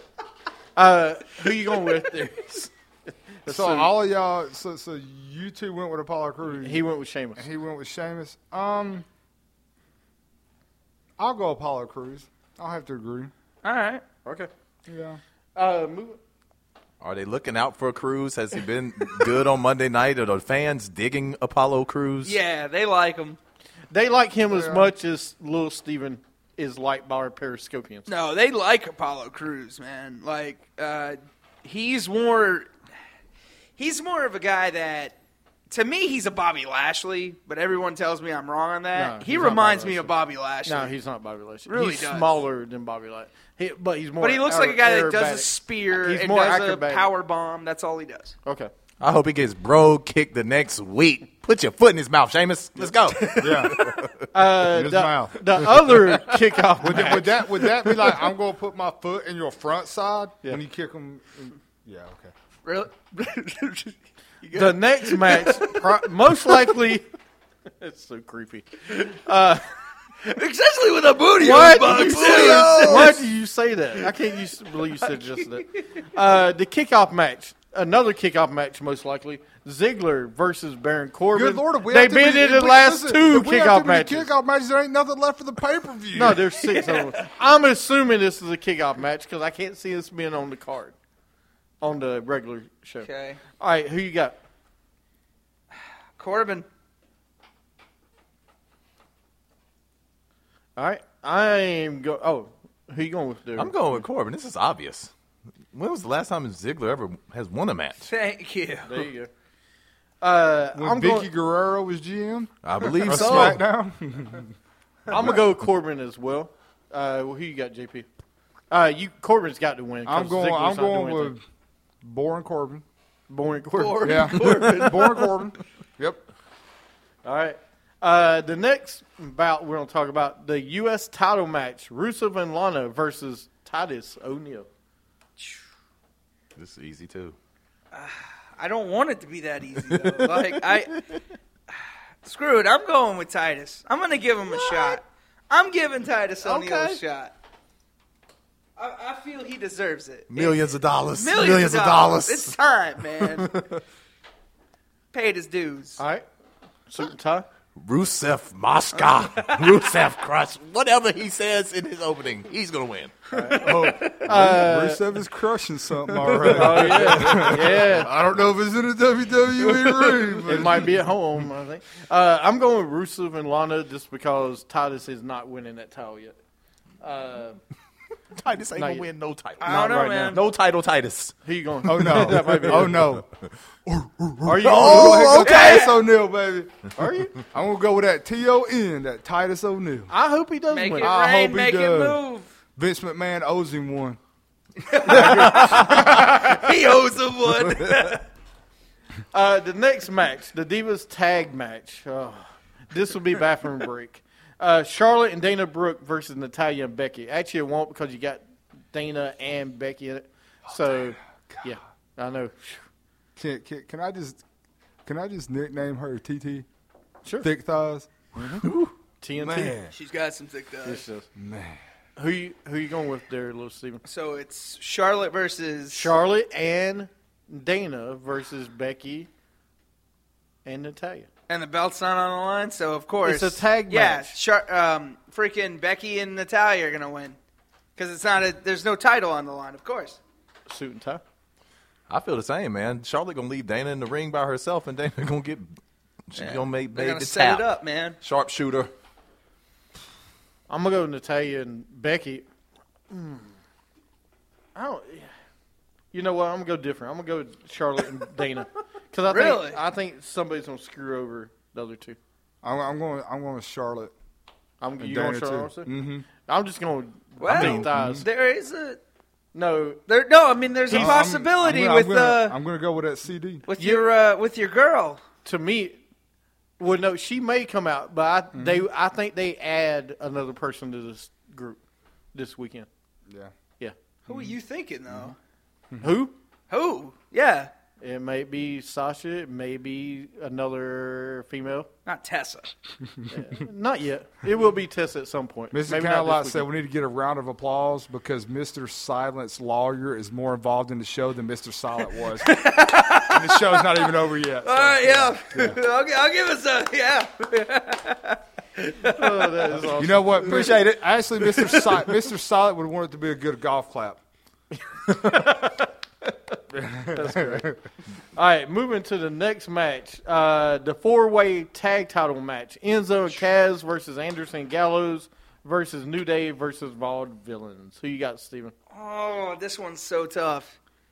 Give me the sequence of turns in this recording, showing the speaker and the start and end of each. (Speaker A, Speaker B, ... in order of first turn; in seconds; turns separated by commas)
Speaker A: 0.8-3.9, Speaker B: 3.5-6.8, Speaker A: 6.5-7.5, Speaker B: 7.4-9.1, Speaker B: 11.2-13.3, Speaker C: 13.6-14.0, Speaker A: 14.2-14.5, Speaker B: 14.9-15.2, Speaker A: 15.6-16.2, Speaker D: 17.0-22.4, Speaker C: 22.2-23.4, Speaker A: 23.9-28.1, Speaker B: 24.5-24.9, Speaker C: 28.1-32.7, Speaker C: 33.8-35.2, Speaker C: 35.7-41.0, Speaker A: 39.0-40.1, Speaker B: 39.4-39.7, Speaker A: 40.7-47.1, Speaker C: 41.7-42.4, Speaker C: 44.2-48.4, Speaker A: 48.5-48.7, Speaker D: 49.0-54.2, Speaker A: 52.8-53.4, Speaker B: 53.4-53.9, Speaker A: 54.3-57.4, Speaker B: 54.5-55.9, Speaker B: 56.8-62.3, Speaker C: 62.6-65.9, Speaker A: 64.5-67.1, Speaker A: 67.8-69.6, Speaker C: 70.2-73.2, Speaker A: 71.4-84.3, Speaker D: 71.9-73.2, Speaker C: 75.2-75.5, Speaker B: 81.3-86.4, Speaker A: 86.1-90.9, Speaker C: 86.6-87.2, Speaker A: 91.8-94.4, Speaker C: 93.0-93.4, Speaker C: 96.2-96.7, Speaker A: 100.8-103.8, Speaker D: 103.6-105.1, Speaker D: 105.7-108.1, Speaker C: 108.1-108.9, Speaker A: 108.9-109.3, Speaker A: 110.2-111.3, Speaker B: 110.8-114.5, Speaker D: 112.6-113.6, Speaker B: 115.1-115.4, Speaker A: 115.1-118.1, Speaker A: 118.7-121.3, Speaker B: 120.1-121.4, Speaker B: 122.0-122.8, Speaker A: 123.3-124.5, Speaker C: 123.8-125.3, Speaker B: 124.0-126.2, Speaker A: 127.2-134.7, Speaker D: 136.6-137.4, Speaker C: 137.9-141.0, Speaker D: 139.8-141.2, Speaker C: 142.2-147.3, Speaker D: 144.5-145.0, Speaker D: 146.4-147.0, Speaker A: 146.6-146.9, Speaker C: 148.8-150.6, Speaker D: 150.3-152.6, Speaker C: 151.1-153.6, Speaker D: 153.2-153.7, Speaker C: 155.1-156.0, Speaker A: 156.0-156.2, Speaker A: 156.9-157.5, Speaker D: 157.8-163.2, Speaker C: 158.9-160.0, Speaker A: 163.3-165.0, Speaker B: 163.5-171.0, Speaker C: 163.7-164.1, Speaker A: 166.3-168.1, Speaker D: 166.5-167.0, Speaker A: 170.4-176.3, Speaker A: 177.0-177.6, Speaker D: 178.3-181.4, Speaker A: 178.8-179.1, Speaker C: 179.6-180.4, Speaker B: 179.7-180.3, Speaker A: 181.4-183.0, Speaker B: 181.9-183.3, Speaker D: 182.0-183.1, Speaker B: 183.9-190.1, Speaker A: 184.4-185.4, Speaker D: 184.6-185.8, Speaker C: 185.4-186.0, Speaker A: 187.0-187.4, Speaker A: 190.1-191.1, Speaker C: 190.7-192.5, Speaker B: 191.0-192.2, Speaker B: 192.8-194.2, Speaker C: 194.9-198.3, Speaker B: 195.0-196.7, Speaker A: 195.1-196.2, Speaker A: 199.3-212.8, Speaker B: 210.7-211.7, Speaker B: 213.4-214.4, Speaker B: 215.1-216.7, Speaker B: 217.4-218.7, Speaker A: 218.4-218.7, Speaker D: 218.6-218.9, Speaker A: 219.2-219.8, Speaker B: 219.4-219.9, Speaker C: 219.9-221.0, Speaker A: 220.8-221.3, Speaker B: 221.3-221.8, Speaker A: 222.2-224.0, Speaker C: 224.1-226.1, Speaker A: 225.9-229.3, Speaker A: 230.7-231.3, Speaker C: 231.5-237.4, Speaker A: 233.2-234.4, Speaker C: 238.0-240.2, Speaker A: 240.7-241.2, Speaker D: 242.1-245.8, Speaker D: 246.3-247.7, Speaker C: 246.4-248.2, Speaker D: 248.2-248.9, Speaker A: 250.7-252.5, Speaker A: 253.1-253.6, Speaker A: 254.8-255.3, Speaker A: 256.1-262.2, Speaker C: 259.3-259.8, Speaker B: 262.6-264.1, Speaker A: 264.8-268.3, Speaker B: 265.0-266.3, Speaker C: 267.4-269.0, Speaker B: 267.5-268.3, Speaker A: 269.5-270.0, Speaker C: 270.1-272.6, Speaker A: 270.9-271.2, Speaker B: 270.9-273.6, Speaker C: 273.7-275.2, Speaker A: 273.8-274.1, Speaker A: 275.4-276.0, Speaker A: 276.8-281.8, Speaker B: 278.5-278.9, Speaker A: 282.3-282.9, Speaker C: 284.3-285.4, Speaker B: 284.3-284.6, Speaker B: 285.1-285.3, Speaker A: 286.0-286.3, Speaker C: 286.7-287.7, Speaker A: 288.0-291.9, Speaker C: 292.1-292.7, Speaker A: 293.3-296.7, Speaker B: 295.7-302.6, Speaker C: 302.4-309.7, Speaker B: 303.1-305.8, Speaker A: 309.0-310.6, Speaker B: 309.9-314.2, Speaker D: 310.4-311.9, Speaker A: 315.1-315.9, Speaker B: 316.7-317.8, Speaker A: 317.1-317.7, Speaker A: 318.4-328.7, Speaker C: 328.9-330.8